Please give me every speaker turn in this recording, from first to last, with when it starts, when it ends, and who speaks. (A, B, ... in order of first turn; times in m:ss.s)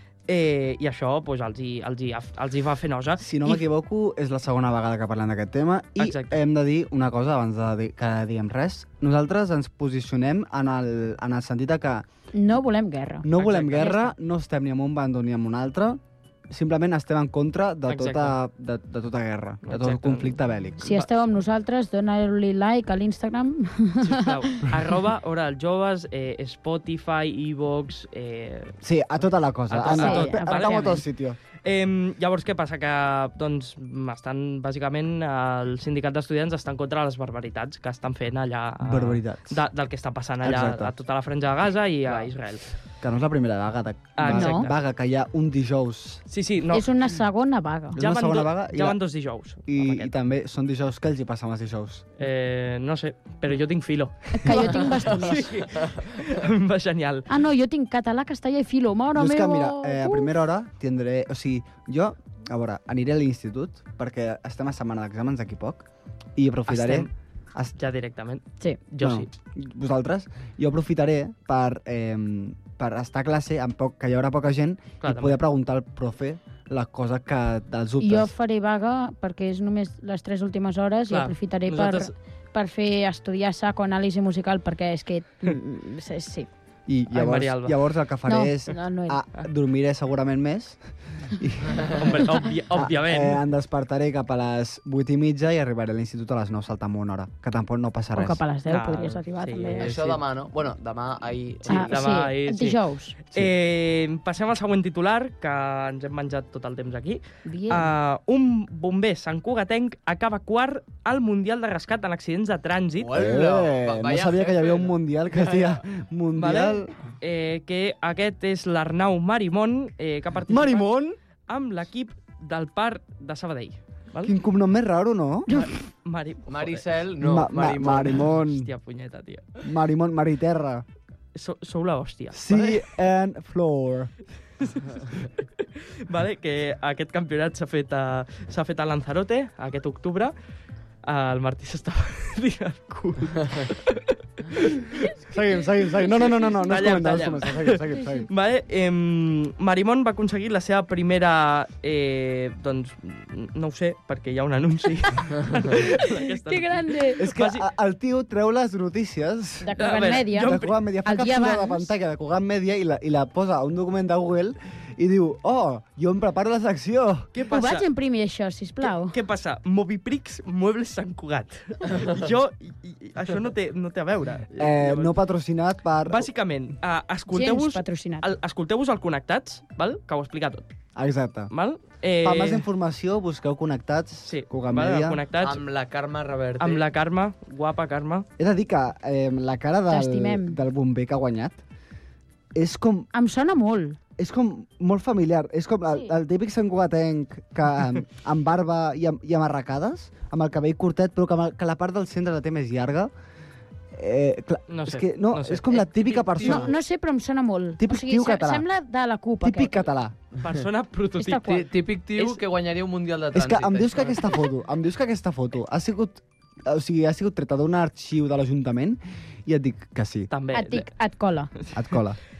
0:00.3-0:03.6 A
0:03.2-0:12.0 B
0:06.0-0:06.4 A
0:12.3-0:14.1 C
0:13.2-0:20.8 B
0:13.3-0:14.1 A
0:17.9-0:18.4 A
0:19.6-0:21.1 A
0:20.8-0:24.6 C
0:24.0-0:28.8 A
0:28.8-0:31.4 B
0:29.7-0:31.0 A
0:29.8-0:31.0 C
0:31.6-0:42.7 A
0:38.8-0:39.6 B
0:40.4-0:40.9 B
0:43.0-0:46.2 B
0:44.2-0:44.8 A
0:44.3-0:44.7 C
0:46.3-0:46.9 A
0:46.7-0:48.0 C
0:47.9-0:49.0 B
0:48.0-0:50.1 A
0:49.7-0:52.0 B
0:52.2-0:57.3 A
0:54.4-0:55.4 C
0:55.0-0:56.0 D
0:57.3-1:00.3 C
0:59.1-1:07.8 B
1:06.7-1:07.1 A
1:07.8-1:09.3 A
1:09.0-1:18.3 B
1:15.0-1:15.4 A
1:18.0-1:26.5 C
1:21.1-1:22.1 A
1:26.9-1:38.4 B
1:27.1-1:27.8 A
1:28.2-1:29.2 C
1:31.9-1:33.4 A
1:38.1-1:39.9 C
1:38.6-1:40.2 A
1:39.8-1:42.1 D
1:41.7-1:53.1 A
1:41.7-1:43.1 C
1:47.4-1:47.9 C
1:53.0-1:54.9 D
1:53.1-1:56.9 B
1:55.3-1:55.8 A
1:56.3-2:00.9 A
2:00.5-2:01.2 B
2:01.5-2:04.3 A
2:04.2-2:05.5 B
2:05.5-2:06.8 A
2:06.5-2:08.3 D
2:07.2-2:08.7 B
2:08.0-2:09.5 A
2:09.6-2:10.8 B
2:11.3-2:13.0 A
2:12.3-2:14.1 B
2:14.6-2:20.3 A
2:21.0-2:37.6 A
2:25.2-2:28.3 B
2:35.8-2:37.2 C
2:37.2-2:39.7 B
2:39.6-2:41.9 C
2:39.8-2:40.8 A
2:40.4-2:47.3 B
2:47.3-2:47.8 A
2:47.4-2:49.1 C
2:48.8-2:55.1 A
2:51.9-2:52.3 D
2:54.6-2:56.3 B
2:56.0-3:00.6 A
2:57.3-2:58.2 C
3:01.0-3:01.5 B
3:01.5-3:02.6 A
3:02.2-3:05.2 B
3:04.2-3:05.6 A
3:05.4-3:06.8 D
3:06.6-3:08.3 A
3:08.4-3:11.6 B
3:09.9-3:10.6 C
3:12.5-3:13.1 B
3:13.1-3:14.0 C
3:14.2-3:23.1 B
3:23.9-3:26.7 B
3:24.7-3:26.6 A
3:26.4-3:26.6 D
3:26.4-3:29.9 C
3:27.8-3:28.6 B
3:29.4-3:30.2 B
3:30.4-3:31.6 A
3:31.2-3:31.6 C
3:31.4-3:34.3 D
3:32.1-3:32.4 A
3:33.3-3:40.3 B
3:40.3-3:40.9 A
3:40.5-3:41.5 C
3:41.7-3:42.2 B